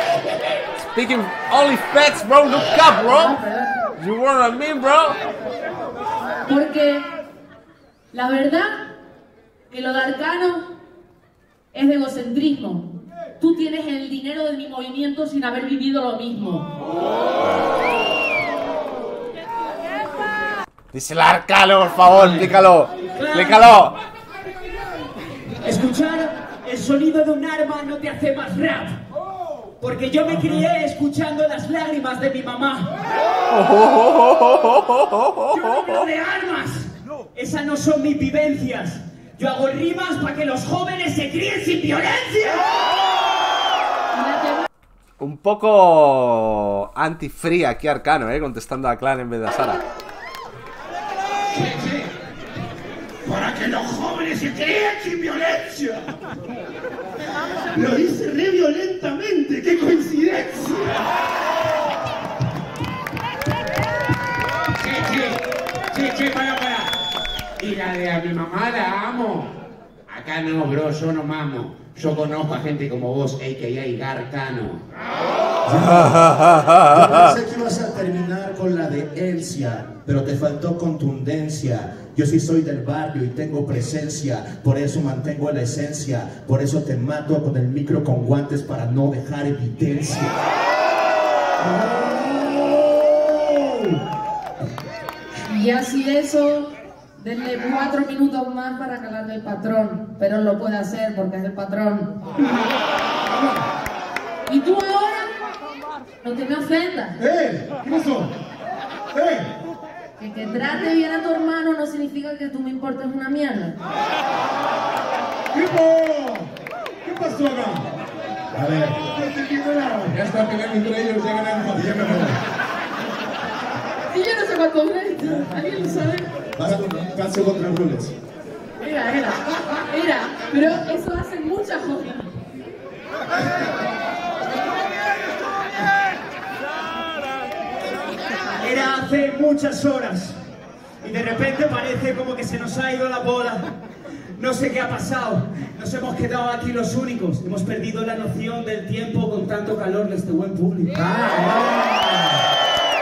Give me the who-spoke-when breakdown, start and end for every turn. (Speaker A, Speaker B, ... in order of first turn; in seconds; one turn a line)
Speaker A: 0.8-3.4
Speaker B: 3.0-3.9
Speaker A: 4.0-5.2
Speaker B: 6.5-7.1
Speaker B: 8.1-8.9
Speaker B: 9.7-10.6
Speaker B: 11.7-16.7
Speaker A: 20.9-24.0
Speaker C: 22.1-22.6
Speaker C: 23.1-23.8
Speaker C: 25.6-29.0
Speaker C: 29.8-33.0
Speaker A: 33.5-35.3
Speaker C: 35.4-42.7
Speaker B: 44.1-44.7
Speaker A: 45.2-49.8
Speaker D: 51.5-52.1
Speaker D: 53.2-56.1
Speaker D: 57.7-58.4
Speaker E: 58.1-60.1
Speaker D: 59.6-61.1
Speaker D: 64.8-67.0
Speaker D: 67.6-69.6
Speaker D: 70.1-74.8
Speaker E: 75.7-90.4
Speaker A: 76.5-76.8
Speaker E: 91.6-93.8
Speaker B: 95.4-102.2
Speaker B: 104.5-105.3
Speaker B: 106.2-107.2
Speaker E: 107.2-108.3
Speaker E: 109.2-109.5
Speaker B: 110.2-113.8
Speaker E: 115.5-116.5
Speaker E: 117.0-117.8
Speaker E: 118.5-120.1
Speaker D: 120.1-121.8
Speaker E: 121.7-122.4
Speaker B: 124.1-126.3
Speaker E: 125.2-128.1
Speaker B: 128.8-132.3
Speaker C: 138.6-140.4
Speaker C: 141.0-143.7
Speaker C: 144.4-150.9
Speaker D: 150.9-152.4